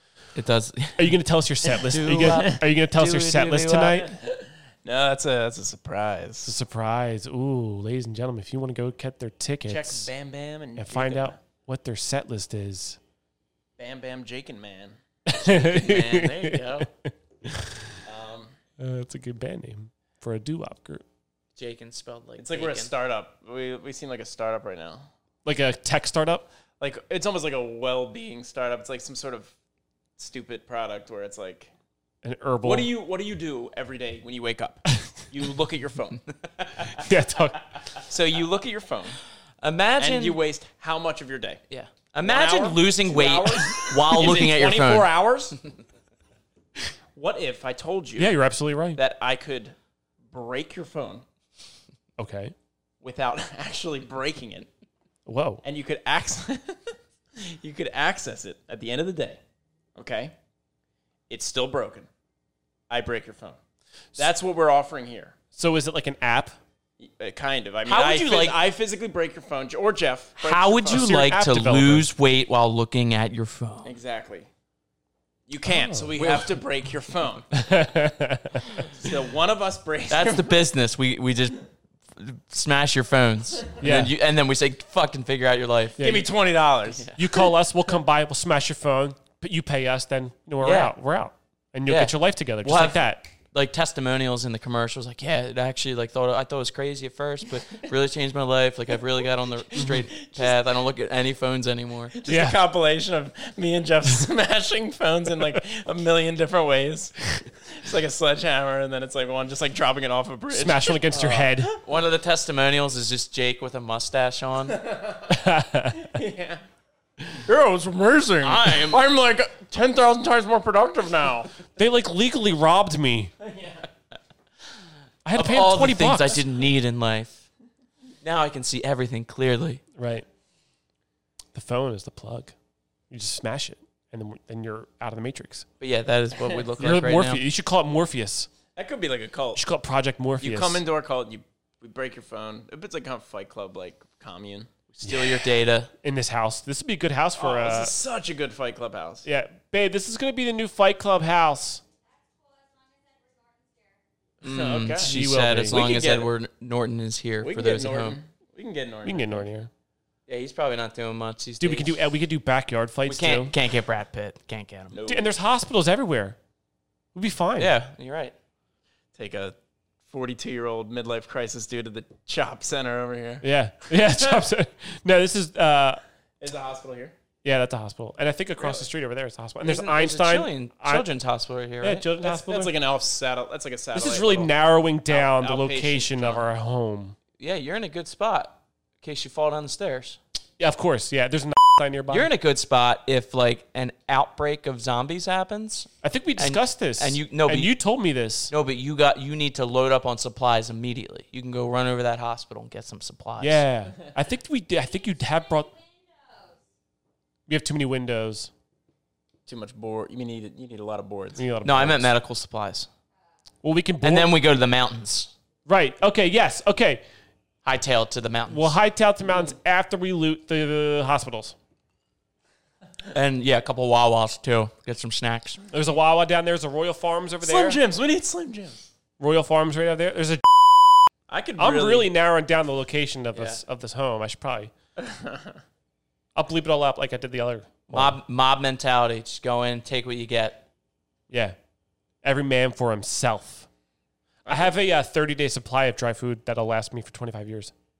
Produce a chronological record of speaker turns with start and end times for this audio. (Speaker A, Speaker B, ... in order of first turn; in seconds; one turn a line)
Speaker A: 0.3-1.1
Speaker B: 1.0-4.1
Speaker A: 1.7-4.0
Speaker C: 2.1-2.6
Speaker C: 4.0-6.5
Speaker B: 6.4-10.1
Speaker C: 9.7-11.3
Speaker B: 10.8-13.0
Speaker C: 13.8-15.0
Speaker B: 15.2-18.0
Speaker A: 15.6-16.9
Speaker C: 18.0-18.5
Speaker B: 18.8-21.0
Speaker A: 21.6-22.9
Speaker C: 22.4-25.0
Speaker B: 25.4-26.5
Speaker C: 26.8-29.5
Speaker C: 30.2-31.7
Speaker B: 32.2-32.9
Speaker C: 32.6-36.2
Speaker A: 36.4-36.8
Speaker B: 36.8-37.6
Speaker C: 38.0-39.2
Speaker A: 39.6-40.4
Speaker C: 40.0-41.6
Speaker A: 41.7-45.1
Speaker C: 42.2-45.6
Speaker C: 47.1-48.4
Speaker B: 48.2-49.0
Speaker C: 49.0-49.7
Speaker C: 50.3-51.2
Speaker B: 52.2-52.5
Speaker C: 53.0-54.7
Speaker B: 55.2-55.6
Speaker C: 55.6-59.4
Speaker C: 60.0-60.3
Speaker C: 61.3-62.1
Speaker C: 62.9-63.6
Speaker C: 64.2-65.3
Speaker B: 65.5-66.5
Speaker C: 67.0-71.2
Speaker A: 67.8-68.6
Speaker B: 70.4-72.1
Speaker A: 70.6-73.9
Speaker C: 73.8-74.5
Speaker C: 75.5-77.5
Speaker B: 75.7-76.5
Speaker A: 76.2-76.4
Speaker B: 77.5-78.8
Speaker C: 78.8-80.6
Speaker A: 80.1-81.6
Speaker A: 82.1-86.0
Speaker B: 83.8-84.1
Speaker B: 86.0-86.2
Speaker C: 86.0-87.1
Speaker B: 87.2-93.2
Speaker A: 90.6-90.9
Speaker A: 91.9-102.2
Speaker C: 99.8-100.5
Speaker C: 102.1-111.0
Speaker B: 102.2-102.6
Speaker B: 110.5-111.7
Speaker A: 111.1-114.8
Speaker C: 114.7-115.4
Speaker B: 115.3-116.1
Speaker C: 115.9-116.6
Speaker C: 117.3-121.5
Speaker A: 118.4-119.0
Speaker B: 121.7-123.3
Speaker C: 123.4-123.9
Speaker B: 125.2-126.4
Speaker A: 125.3-127.5
Speaker A: 128.2-129.8
Speaker B: 130.0-130.2
Speaker B: 131.5-132.5
Speaker B: 133.1-135.6
Speaker A: 135.8-137.4
Speaker B: 136.8-138.5
Speaker C: 138.8-139.6
Speaker B: 139.5-140.8
Speaker C: 140.4-144.7
Speaker A: 144.9-145.9
Speaker B: 146.0-147.9
Speaker C: 147.4-149.2
Speaker B: 149.2-151.8
Speaker A: 154.4-158.2
Speaker C: 154.4-155.1
Speaker B: 155.0-156.0
Speaker C: 155.7-156.3
Speaker C: 157.4-159.4
Speaker B: 159.0-159.7
Speaker A: 160.3-162.0
Speaker B: 161.6-163.5
Speaker A: 163.1-164.9
Speaker C: 164.9-165.3
Speaker B: 165.1-166.4
Speaker B: 167.1-167.7
Speaker A: 167.6-168.3
Speaker C: 169.2-169.6
Speaker C: 170.1-174.4
Speaker B: 173.4-176.0
Speaker C: 176.4-177.1
Speaker B: 177.4-181.1
Speaker C: 178.6-178.8
Speaker A: 179.6-182.0
Speaker B: 181.8-182.7
Speaker C: 182.2-184.5
Speaker B: 183.9-187.2
Speaker C: 185.1-186.4
Speaker A: 187.4-190.2
Speaker B: 190.6-192.3
Speaker A: 192.1-197.7
Speaker B: 196.0-198.5
Speaker A: 198.5-203.6
Speaker B: 203.4-205.8
Speaker B: 207.5-208.5
Speaker C: 209.5-211.4
Speaker B: 211.4-212.1
Speaker A: 211.6-212.9
Speaker B: 213.6-214.3
Speaker A: 214.0-215.3
Speaker B: 215.7-217.0
Speaker A: 217.6-218.7
Speaker B: 218.5-221.5
Speaker A: 223.1-225.6
Speaker B: 225.7-227.8
Speaker C: 227.4-228.9
Speaker B: 229.2-234.7
Speaker C: 231.3-232.1
Speaker A: 233.3-233.6
Speaker C: 235.0-235.6
Speaker B: 236.3-238.2
Speaker A: 237.9-240.6
Speaker B: 241.3-241.6
Speaker B: 242.2-243.7
Speaker B: 244.4-247.7